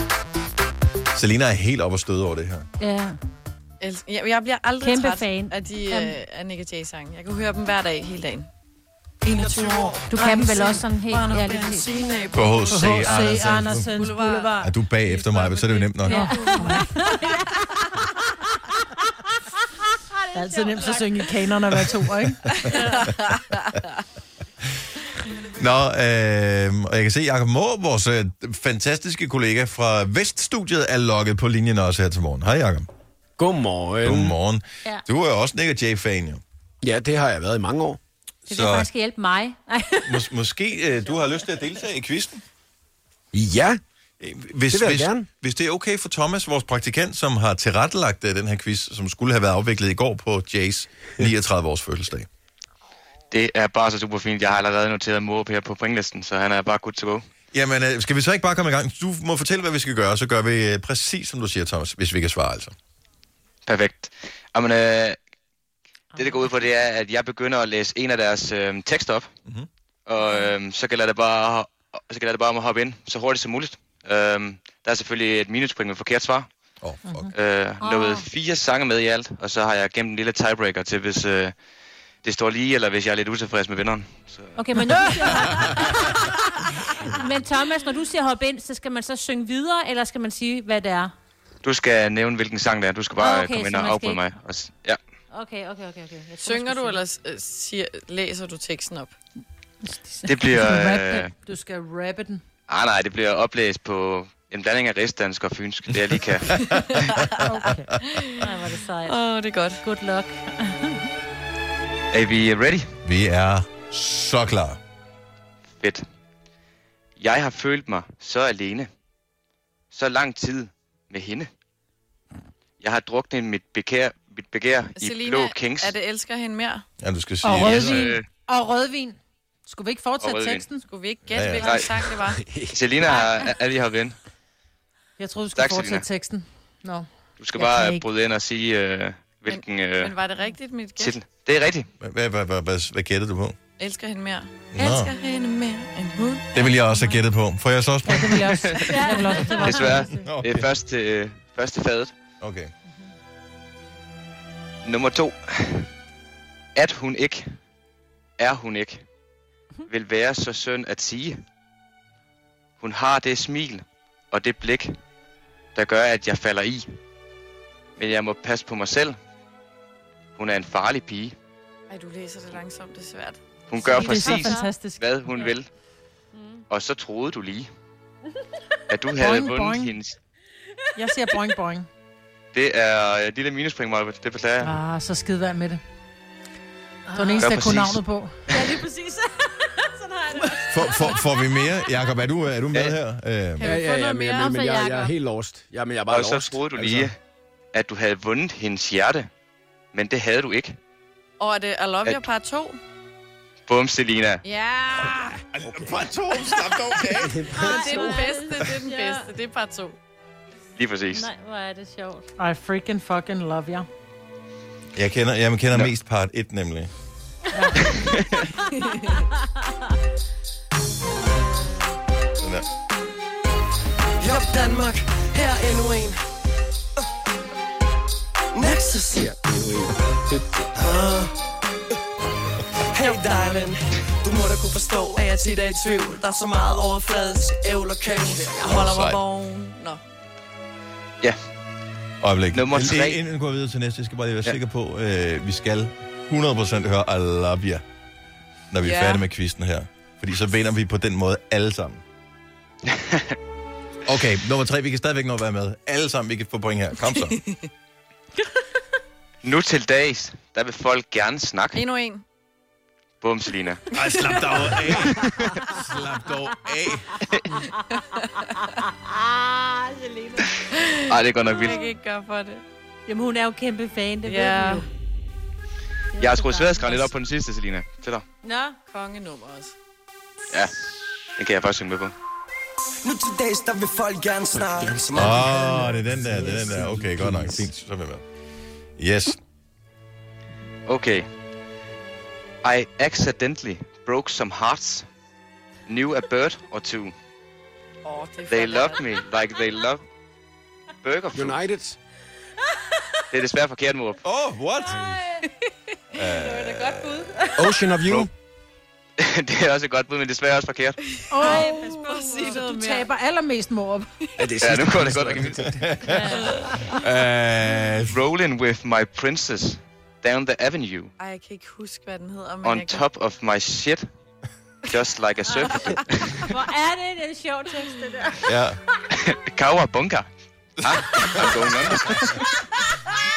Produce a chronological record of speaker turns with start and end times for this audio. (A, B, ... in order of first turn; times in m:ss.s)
0:01.1-0:02.7 A
0:02.8-0:03.2 B
0:03.8-0:08.5 C
0:04.8-0:06.2 B
0:09.2-0:17.6 C
0:09.5-0:10.0 D
0:10.1-0:12.2 B
0:12.3-0:13.9 A
0:12.7-0:14.6 E
0:14.2-0:14.5 B
0:14.6-0:16.3 A
0:16.0-0:17.6 B
0:16.1-0:17.3 E
0:20.3-0:21.3 B
0:20.3-0:22.5 E
0:22.7-0:23.1 B
0:22.7-0:23.4 C
0:25.5-0:32.9 A
0:33.4-0:34.4 F
0:34.0-0:36.4 A
0:36.8-0:38.0 F
0:38.5-0:40.3 B
0:38.5-0:38.9 A
0:40.0-0:42.4 A
0:43.3-0:43.8 F
0:44.2-0:52.3 A
0:44.7-0:45.3 F
0:53.3-0:57.2 G
0:57.5-1:02.7 A
1:03.7-1:05.2 G
1:06.2-1:09.3 G
1:10.1-1:16.5 G
1:10.2-1:10.5 B
1:16.8-1:17.3 A
1:17.0-1:17.3 E
1:17.3-1:21.6 G
1:17.8-1:18.2 B
1:22.2-1:25.2 G
1:24.6-1:31.1 B
1:31.6-1:35.0 G
1:33.2-1:34.4 B
1:35.3-1:37.0 B
1:36.4-1:39.2 C
1:39.8-1:42.4 E
1:40.3-1:41.3 G
1:42.7-1:46.6 G
1:46.6-1:46.8 A
1:46.8-1:47.3 C
1:47.4-1:47.9 E
1:48.0-1:49.8 C
1:48.4-1:49.2 B
1:49.8-1:51.0 B
1:52.1-1:52.9 G
1:53.0-1:54.8 A
1:55.8-1:56.0 G
1:57.2-1:58.9 G
1:59.9-2:01.5 G
2:02.8-2:05.9 G
2:05.0-2:06.8 C
2:07.0-2:08.2 A
2:07.4-2:10.8 E
2:07.5-2:08.3 G
2:10.2-2:10.7 G
2:10.8-2:12.4 C
2:11.3-2:11.7 A
2:11.5-2:12.0 G
2:12.4-2:12.8 F
2:12.7-2:14.2 G
2:15.2-2:18.1 E
2:15.6-2:16.1 G
2:17.4-2:20.2 G
2:19.5-2:21.2 C
2:21.0-2:21.9 G
2:22.0-2:23.6 A
2:23.8-2:26.6 C
2:24.7-2:25.1 A
2:26.5-2:28.7 A
2:28.0-2:30.2 E
2:28.8-2:30.2 B
2:28.8-2:29.6 C
2:29.6-2:32.2 G
2:30.2-2:30.7 A
2:32.4-2:32.7 A
2:34.8-2:35.9 G
2:36.8-2:37.5 G
2:38.4-2:39.1 G
2:39.9-2:41.4 G
2:42.8-2:45.0 G
2:45.8-2:46.9 G
2:48.0-2:49.2 G
2:50.4-2:51.4 G
2:51.9-2:53.4 C
2:53.7-2:55.7 G
2:53.8-2:54.8 B
2:53.8-2:55.5 E
2:56.7-2:57.7 G
2:58.9-3:00.2 G
2:59.2-2:59.9 E
3:01.0-3:01.9 E
3:02.5-3:04.8 G
3:04.6-3:05.8 E
3:07.1-3:07.6 B
3:07.1-3:08.4 E
3:07.4-3:08.0 G
3:08.5-3:12.1 B
3:10.7-3:13.7 A
3:13.6-3:15.1 B
3:13.6-3:17.1 F
3:13.6-3:14.8 C
3:16.1-3:17.2 G
3:17.7-3:19.3 G
3:19.9-3:20.8 G
3:21.4-3:22.8 C
3:23.7-3:24.4 G
3:24.4-3:25.4 C
3:25.6-3:27.4 A
3:25.6-3:26.1 F
3:27.2-3:28.3 F
3:27.5-3:29.3 B
3:27.5-3:30.0 C
3:30.8-3:31.3 G
3:31.1-3:32.3 B
3:32.4-3:33.9 E
3:35.0-3:36.9 A
3:37.5-3:37.9 E
3:37.8-3:38.5 G
3:38.8-3:39.2 C
3:42.4-3:42.7 A
3:44.2-3:46.2 D
3:48.6-3:49.4 D
3:49.2-3:50.5 F
3:50.8-3:51.4 D
3:52.9-3:58.8 D
3:53.0-3:53.6 C
3:55.1-3:56.3 C
3:58.5-4:00.0 C
3:58.7-3:59.2 A
4:02.2-4:07.8 A
4:02.5-4:03.2 G
4:08.7-4:12.0 A
4:08.8-4:09.2 C
4:12.9-4:13.4 G
4:14.1-4:17.4 A
4:17.1-4:17.7 C
4:19.4-4:21.8 G
4:21.7-4:22.2 C
4:23.2-4:23.8 G
4:23.9-4:27.3 A
4:28.4-4:30.5 B
4:30.7-4:32.6 C
4:31.1-4:31.8 G
4:33.1-4:34.9 B
4:34.2-4:34.9 C
4:36.2-4:37.1 B
4:36.2-4:38.2 G
4:38.4-4:38.8 B
4:38.9-4:39.8 C
4:40.5-4:40.8 G
4:41.4-4:42.1 G
4:43.0-4:45.5 D
4:45.1-4:48.2 A
4:45.2-4:47.7 F
4:49.0-4:49.4 A
4:50.9-4:51.3 G
4:52.6-4:55.1 G
4:55.9-4:57.1 G
4:58.0-4:59.2 C
4:58.5-5:00.0 G
5:01.0-5:01.6 G
5:01.3-5:02.0 F
5:03.3-5:04.2 G
5:04.2-5:05.0 A
5:04.9-5:05.2 F
5:04.9-5:05.4 B
5:06.1-5:07.3 A
5:06.6-5:07.5 B
5:07.6-5:08.3 F
5:08.0-5:08.3 G
5:09.2-5:11.0 G
5:11.0-5:13.1 C
5:11.3-5:14.1 E
5:11.4-5:12.7 B
5:14.4-5:15.8 F
5:14.6-5:15.7 G
5:15.4-5:16.2 A
5:16.1-5:16.7 C
5:16.1-5:17.0 B
5:17.0-5:18.2 A
5:18.1-5:21.1 G
5:21.2-5:23.0 C
5:22.6-5:24.1 G
5:24.9-5:26.5 G
5:25.6-5:26.0 C
5:26.5-5:28.5 B
5:28.4-5:28.8 A
5:29.1-5:30.3 G
5:30.8-5:32.2 A
5:30.8-5:32.4 G